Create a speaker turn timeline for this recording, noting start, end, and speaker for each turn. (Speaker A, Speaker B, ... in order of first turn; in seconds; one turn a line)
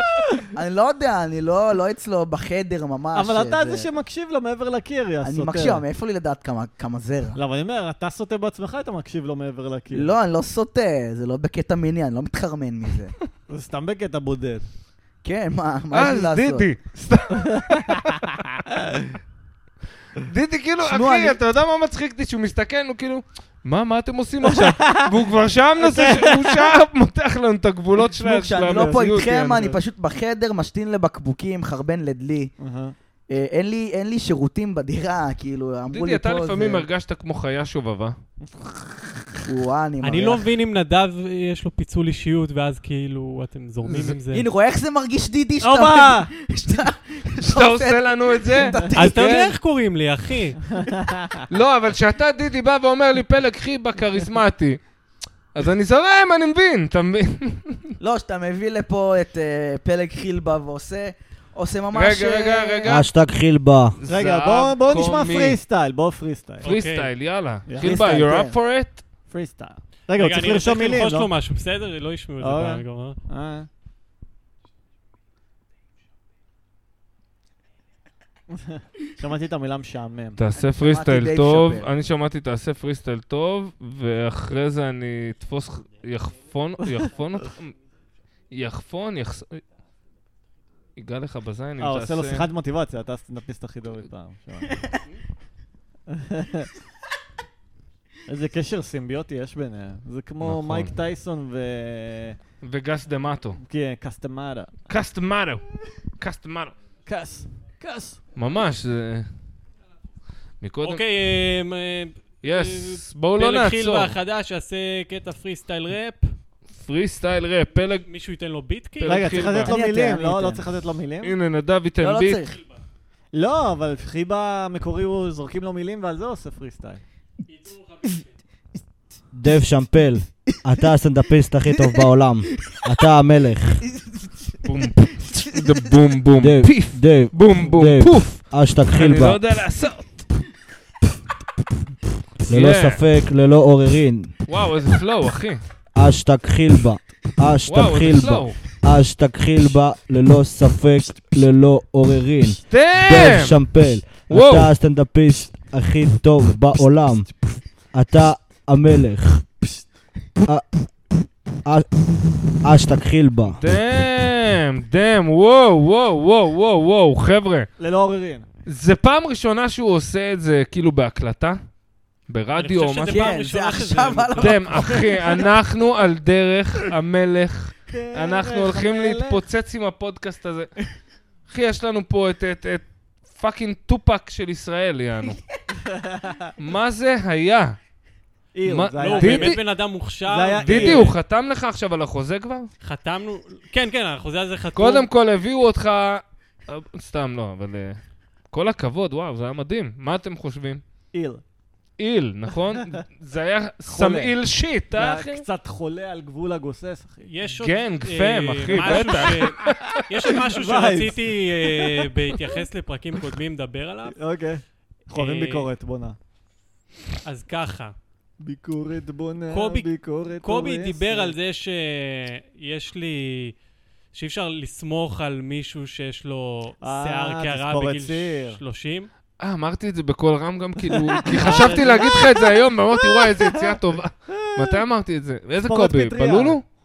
Speaker A: 0.5-3.9
Speaker B: 3.1-5.8
Speaker A: 5.2-7.4
Speaker B: 7.4-10.1
Speaker A: 9.9-13.1
Speaker B: 13.5-14.7
Speaker A: 15.2-16.7
Speaker C: 15.9-18.6
Speaker C: 20.2-29.6
Speaker A: 20.8-21.4
Speaker B: 24.5-25.1
Speaker B: 25.8-26.6
Speaker A: 28.2-32.5
Speaker B: 28.7-29.8
Speaker B: 32.6-33.0
Speaker A: 33.3-36.9
Speaker C: 35.9-38.1
Speaker A: 39.5-40.5
Speaker D: 40.0-44.5
Speaker C: 43.8-44.2
Speaker A: 44.3-49.4
Speaker B: 45.6-46.3
Speaker C: 47.5-49.6
Speaker D: 48.9-50.7
Speaker B: 50.8-51.4
Speaker C: 51.5-54.8
Speaker C: 55.5-57.9
Speaker A: 58.0-63.0
Speaker C: 61.9-63.1
Speaker E: 62.9-64.0
Speaker C: 64.0-65.6
Speaker B: 64.1-66.7
Speaker D: 66.6-67.1
Speaker C: 66.6-69.0
Speaker A: 67.8-68.5
Speaker B: 69.3-71.3
Speaker D: 70.2-73.2
Speaker B: 72.4-73.7
Speaker B: 78.5-80.4
Speaker C: 80.4-87.8
Speaker A: 80.6-81.9
Speaker C: 88.5-89.6
Speaker C: 91.0-92.5
Speaker B: 91.8-94.8
Speaker B: 96.1-96.7
Speaker B: 98.3-102.4
Speaker C: 100.4-100.9
Speaker C: 102.6-103.6
Speaker B: 103.6-104.7
Speaker C: 104.9-105.7
Speaker C: 106.2-106.7
Speaker B: 107.1-108.2
Speaker C: 108.4-109.3
Speaker C: 110.6-111.0
Speaker D: 110.8-116.3
Speaker C: 112.4-114.2
Speaker C: 116.8-118.1
Speaker D: 118.0-119.5
Speaker C: 119.0-119.7
Speaker B: 119.0-121.4
Speaker A: 119.7-120.6
Speaker C: 121.2-122.4
Speaker A: 122.0-122.6
Speaker B: 123.3-127.0
Speaker D: 127.5-128.3
Speaker E: 129.3-133.8
Speaker A: 131.8-132.0
Speaker A: 133.9-134.6
Speaker C: 134.6-138.4
Speaker A: 135.2-135.8
Speaker E: 136.4-139.4
Speaker C: 138.9-140.2
Speaker E: 142.5-144.3
Speaker C: 142.5-143.0
Speaker C: 144.5-145.6
Speaker E: 145.9-157.3
Speaker C: 147.7-148.6
Speaker C: 152.7-153.6
Speaker C: 154.3-154.7
Speaker E: 157.9-159.4
Speaker E: 160.4-160.7
Speaker E: 162.6-163.6
Speaker C: 163.5-167.7
Speaker B: 167.8-168.5
Speaker C: 168.7-171.6
Speaker C: 172.3-173.3
Speaker D: 172.6-175.1
Speaker A: 173.1-175.4
Speaker C: 174.4-180.7
Speaker B: 177.9-179.4
Speaker C: 181.5-185.4
Speaker B: 185.9-186.5
Speaker C: 186.6-187.8
Speaker B: 188.5-189.6
Speaker C: 188.7-189.6
Speaker D: 189.0-191.2
Speaker B: 190.3-191.2
Speaker C: 190.6-192.7
Speaker D: 192.8-195.1
Speaker C: 194.8-198.0
Speaker C: 198.5-200.8
Speaker B: 201.1-201.4
Speaker C: 202.0-205.4
Speaker B: 203.9-204.3
Speaker B: 204.9-207.5
Speaker D: 207.2-214.2
Speaker C: 207.6-210.0
Speaker B: 208.8-209.3
Speaker B: 210.5-212.1
Speaker B: 214.1-216.2
Speaker D: 215.1-215.7
Speaker D: 217.2-217.9
Speaker B: 218.4-221.4
Speaker D: 219.5-223.6
Speaker D: 224.1-229.1
Speaker B: 226.8-228.6
Speaker C: 229.4-236.6
Speaker B: 230.9-233.7
Speaker D: 231.3-232.2
Speaker B: 234.3-234.8
Speaker B: 235.6-236.6